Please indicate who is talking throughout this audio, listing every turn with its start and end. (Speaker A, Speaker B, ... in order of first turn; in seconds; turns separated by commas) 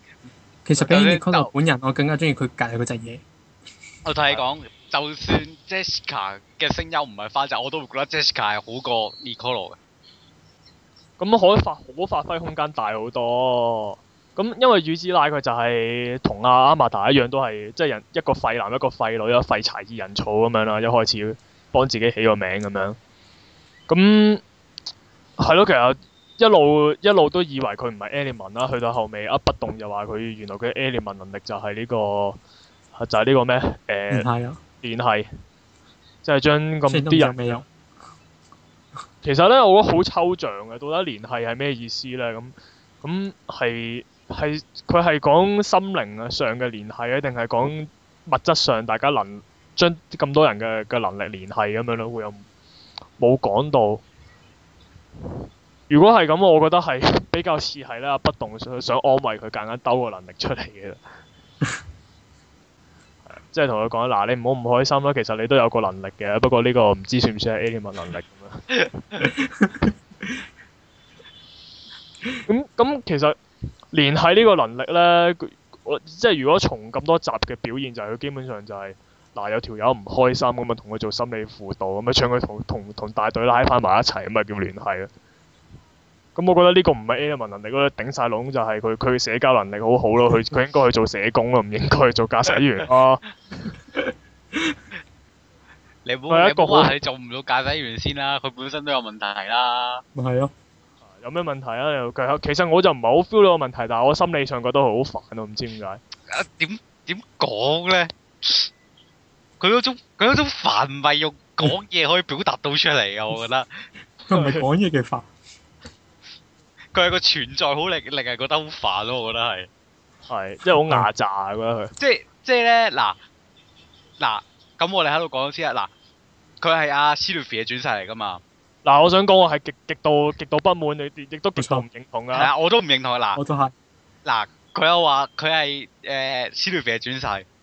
Speaker A: 0.7-3.2, Speaker B: 0.8-1.5, Speaker B: 4.0-9.8, Speaker C: 11.2-23.0, Speaker C: 23.9-24.4, Speaker C: 25.4-32.4, Speaker C: 33.0-34.3, Speaker A: 34.1-34.6, Speaker C: 34.8-35.3, Speaker C: 36.2-37.4, Speaker A: 36.9-37.7, Speaker C: 39.2-52.5, Speaker C: 53.2-54.0, Speaker C: 55.9-61.0, Speaker C: 63.3-68.7, Speaker A: 69.4-69.9, Speaker C: 72.5-73.4, Speaker C: 73.9-85.1, Speaker C: 86.4-93.2, Speaker B: 96.0-100.0, Speaker C: 96.3-97.0, Speaker A: 100.2-100.5, Speaker C: 101.1-106.0, Speaker B: 106.3-108.7, Speaker B: 109.6-113.7, Speaker A: 114.3-115.3, Speaker C: 114.3-114.6, Speaker B: 116.9-119.7, Speaker C: 120.3-121.9, Speaker B: 122.0-123.2, Speaker B: 124.2-125.9, Speaker B: 126.6-128.4, Speaker C: 128.8-132.5, Speaker A: 131.6-131.9, Speaker B: 132.3-133.4, Speaker A: 133.3-133.7, Speaker B: 134.2-137.5